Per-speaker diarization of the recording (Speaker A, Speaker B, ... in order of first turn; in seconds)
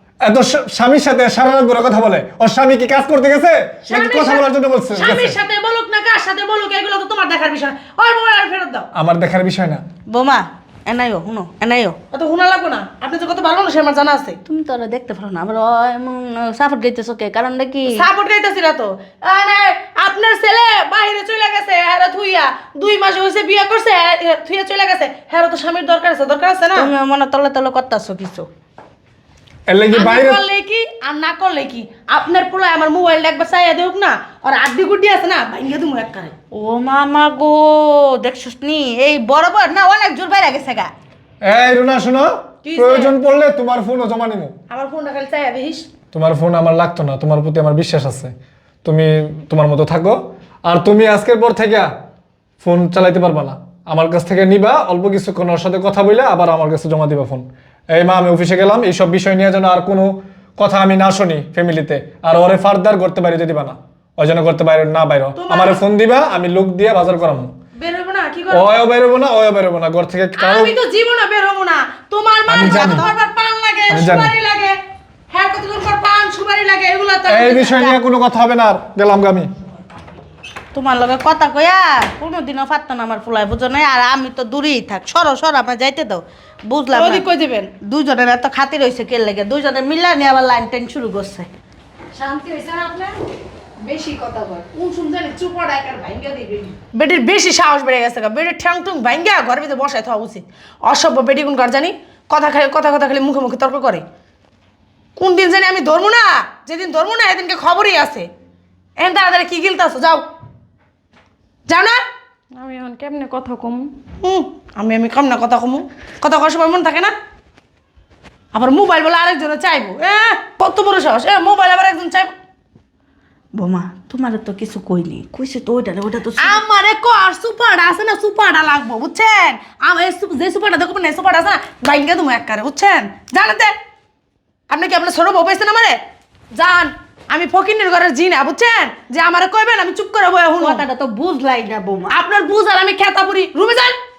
Speaker A: 0.2-5.4, 8.9-9.8, 29.7-30.4, 41.4-44.5, 46.1-48.3, 48.8-51.9, 52.6-67.5, 68.5-70.7, 72.5-73.1, 73.9-74.3, 77.3-79.5
Speaker B: 3.9-8.9, 12.1-14.4, 17.9-26.9, 29.9-36.3, 42.6-43.1, 44.7-45.9, 65.3-65.8, 67.8-68.8, 70.3-74.8, 75.3-77.9, 86.9-87.7, 93.8-104.0, 105.2-108.3, 109.0-110.2, 111.7-112.0, 114.2-117.1, 118.5-122.3, 126.4-133.7, 134.7-136.0, 136.5-140.8, 142.1-144.0
Speaker C: 10.1-11.9, 14.4-18.0, 26.7-28.5, 36.5-40.9, 80.7-87.2, 87.8-91.5, 123.5-126.6, 140.6-142.1
Speaker D: 92.1-93.1, 112.6-113.8